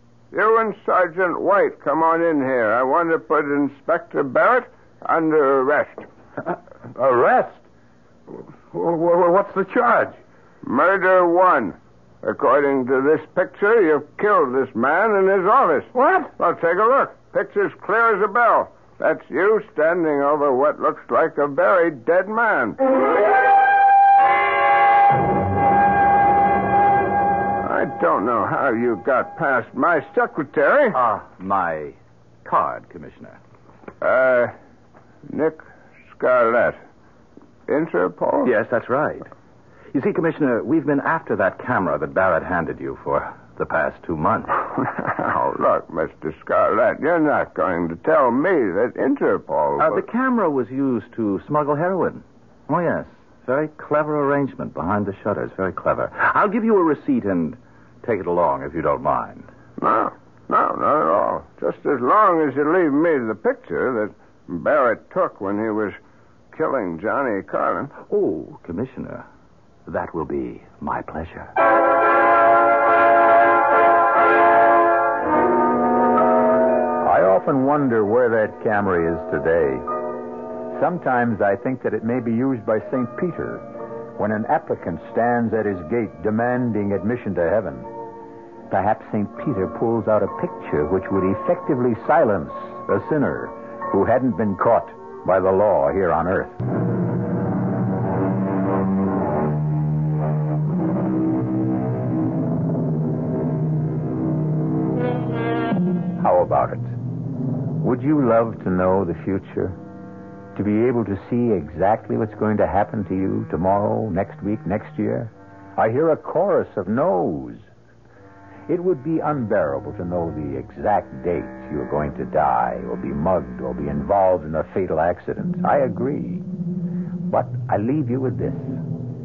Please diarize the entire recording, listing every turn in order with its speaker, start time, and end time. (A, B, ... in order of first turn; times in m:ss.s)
0:00.3-0:06.1 A
0:06.4-0:07.6 B
0:08.4-0:10.2 B
0:10.6-0:23.0 A
0:27.6-0:31.0 A
0:30.9-0:33.4 C
0:34.0-0:34.5 A
0:35.3-0:36.8 A
0:37.7-0:38.5 A
0:38.4-0:39.3 C
0:39.9-0:44.6 C
0:44.7-0:50.0 A
0:49.8-0:59.5 C
0:59.8-1:06.0 A
1:06.5-1:07.9 A
1:08.1-1:09.2 C
1:09.9-1:11.5 C
1:17.0-1:19.9 D
1:20.7-1:27.9 D
1:28.7-1:36.6 D
1:46.2-1:47.0 D
1:47.8-1:49.8 D
1:50.5-1:57.7 D
1:58.7-2:06.4 D
2:07.3-2:08.8 D